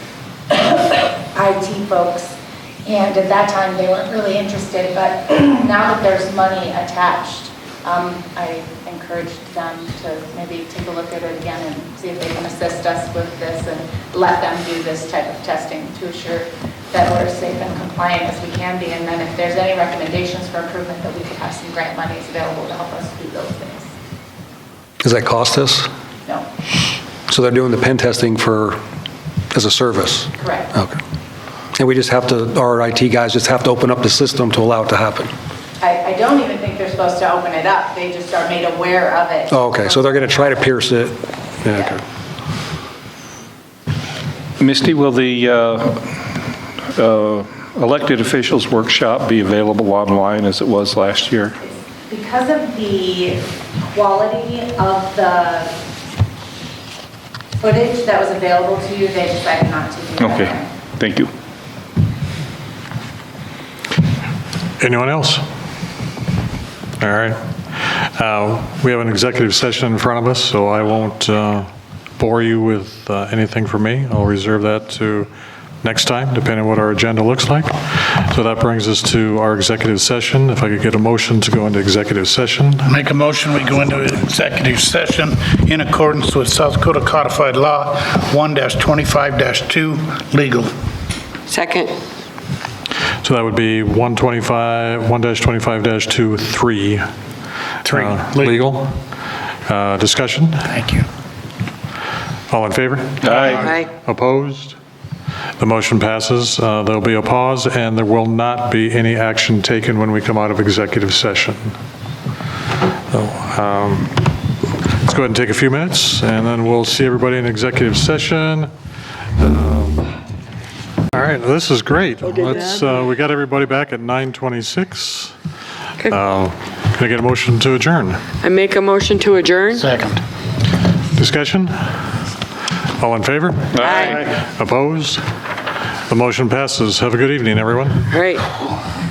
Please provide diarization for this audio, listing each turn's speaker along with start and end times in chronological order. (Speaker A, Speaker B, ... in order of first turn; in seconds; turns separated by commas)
Speaker A: 0.5-23.9, Speaker B: 25.0-25.9, Speaker B: 27.3-28.8, Speaker B: 29.5-31.0, Speaker A: 30.4-30.7, Speaker B: 31.7-35.3, Speaker A: 35.8-39.6, Speaker B: 39.5-42.0, Speaker C: 44.6-46.1, Speaker C: 46.9-51.5, Speaker A: 51.6-53.4, Speaker A: 53.9-55.7, Speaker A: 57.6-60.7, Speaker C: 60.2-61.3, Speaker D: 64.8-65.4, Speaker D: 67.0-75.3, Speaker D: 75.8-82.9, Speaker E: 82.8-90.7, Speaker F: 91.5-91.9, Speaker D: 93.2-97.0, Speaker E: 97.8-98.6, Speaker D: 97.9-99.0, Speaker D: 99.7-100.7, Speaker E: 100.7-101.1, Speaker D: 102.5-104.8, Speaker F: 103.4-103.9, Speaker D: 105.6-111.7, Speaker D: 113.1-114.2, Speaker D: 114.9-118.7, Speaker D: 119.4-120.1, Speaker D: 121.1-125.3, Speaker D: 126.1-128.3, Speaker F: 128.4-129.8, Speaker E: 129.7-130.2, Speaker D: 131.2-131.7, Speaker D: 133.0-135.2, Speaker F: 133.8-134.2, Speaker D: 136.1-138.0, Speaker F: 138.1-138.5